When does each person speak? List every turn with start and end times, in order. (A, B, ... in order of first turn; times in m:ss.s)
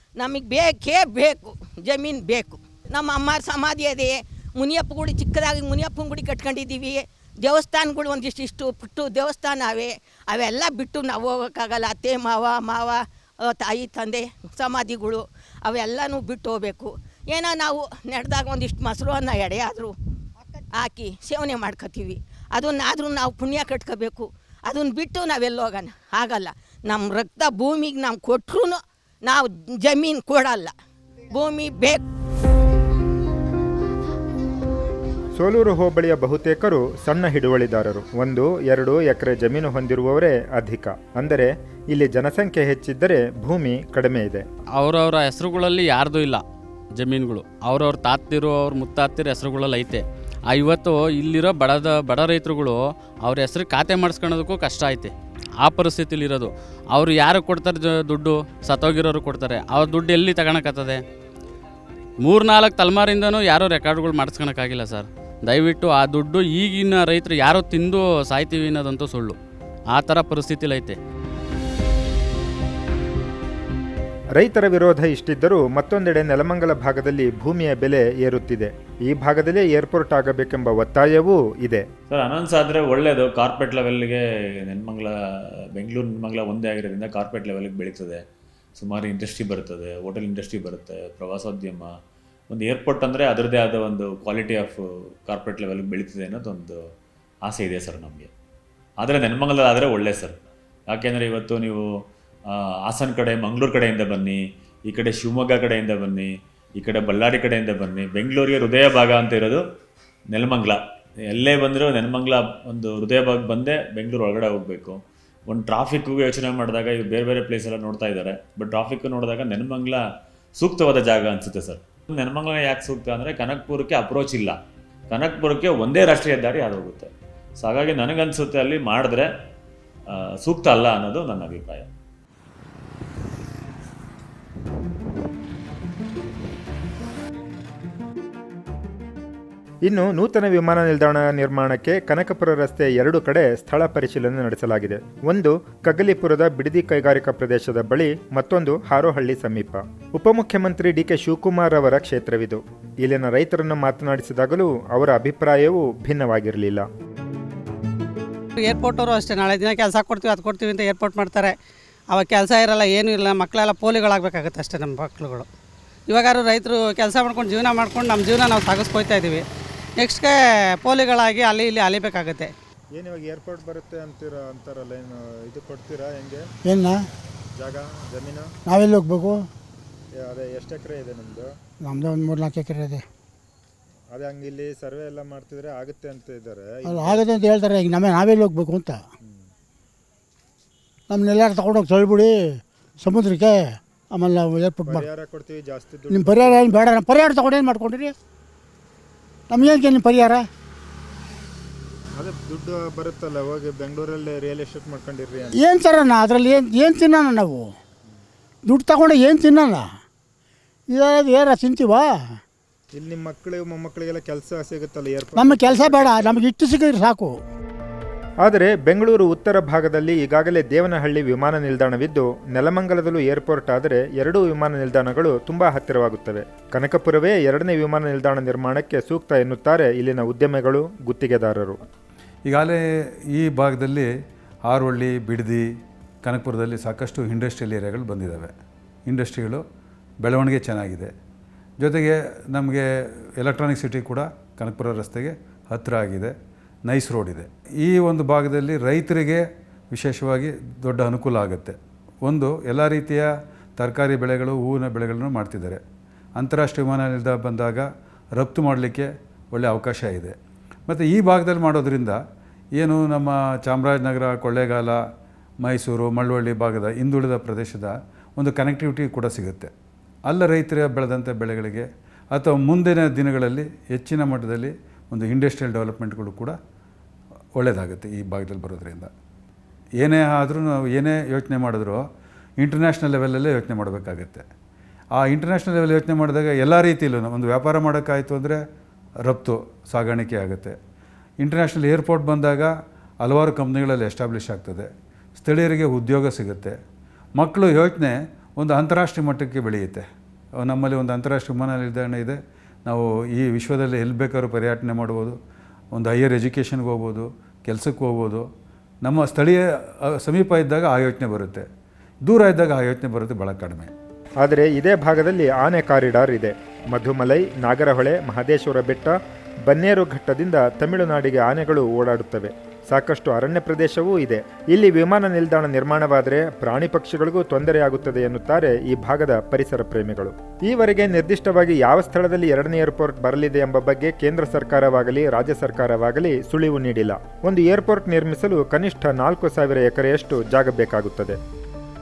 0:00.2-0:19.9 A
0:20.7-0:30.7 A
0:31.3-0:32.0 A
0:35.4-0:44.4 B
0:44.8-0:46.4 C
0:47.0-1:01.0 C
1:02.2-1:09.4 C
1:10.0-1:11.0 C
1:14.4-1:21.8 B
1:22.1-1:25.1 D
1:25.8-1:28.2 D
1:28.8-1:31.9 D
1:32.5-1:36.8 D
1:37.4-1:38.3 D
1:39.0-1:41.8 D
1:42.5-1:49.6 D
1:50.3-2:00.0 D
2:00.6-2:04.6 D
2:05.1-2:09.3 D
2:10.1-2:11.9 D
2:19.9-2:36.9 B
2:38.6-2:41.6 E
2:42.1-2:45.5 E
2:46.1-2:49.4 E
2:50.0-2:52.5 E
2:52.9-2:56.5 B
2:56.6-2:57.0 F
2:57.6-2:58.5 B
2:58.7-2:59.5 F
3:00.2-3:01.5 B
3:01.8-3:03.0 F
3:04.1-3:07.4 B
3:06.8-3:09.0 F
3:11.1-3:15.1 F
3:14.9-3:16.9 B
3:16.1-3:18.1 F
3:19.5-3:20.4 F
3:22.2-3:25.6 B
3:25.6-3:27.7 F
3:28.7-3:29.8 F
3:30.9-3:32.1 F
3:33.0-3:36.4 B
3:35.4-3:37.4 F
3:38.4-3:51.8 B
3:52.5-3:52.8 G
3:53.3-3:54.1 G
3:54.7-3:55.6 G
3:56.2-3:58.5 G
3:59.1-3:59.6 G
4:00.2-4:01.1 G
4:01.8-4:02.8 G
4:03.4-4:06.3 G
4:06.9-4:13.3 G
4:13.8-4:15.8 G
4:16.4-4:17.9 G
4:18.4-4:20.4 G
4:20.9-4:22.2 G
4:22.8-4:25.0 G
4:25.6-4:29.7 G
4:30.3-4:36.6 G
4:37.6-4:39.1 G
4:40.0-4:42.0 G
4:42.6-4:44.5 G
4:45.2-4:48.6 G
4:49.3-4:50.8 G
4:51.4-4:52.7 G
4:53.2-4:56.8 G
4:57.4-5:00.0 G
5:00.6-5:05.4 G
5:06.0-5:08.4 G
5:09.0-5:09.6 G
5:10.2-5:11.7 G
5:12.3-5:13.9 G
5:14.4-5:19.2 B
5:19.7-5:41.4 B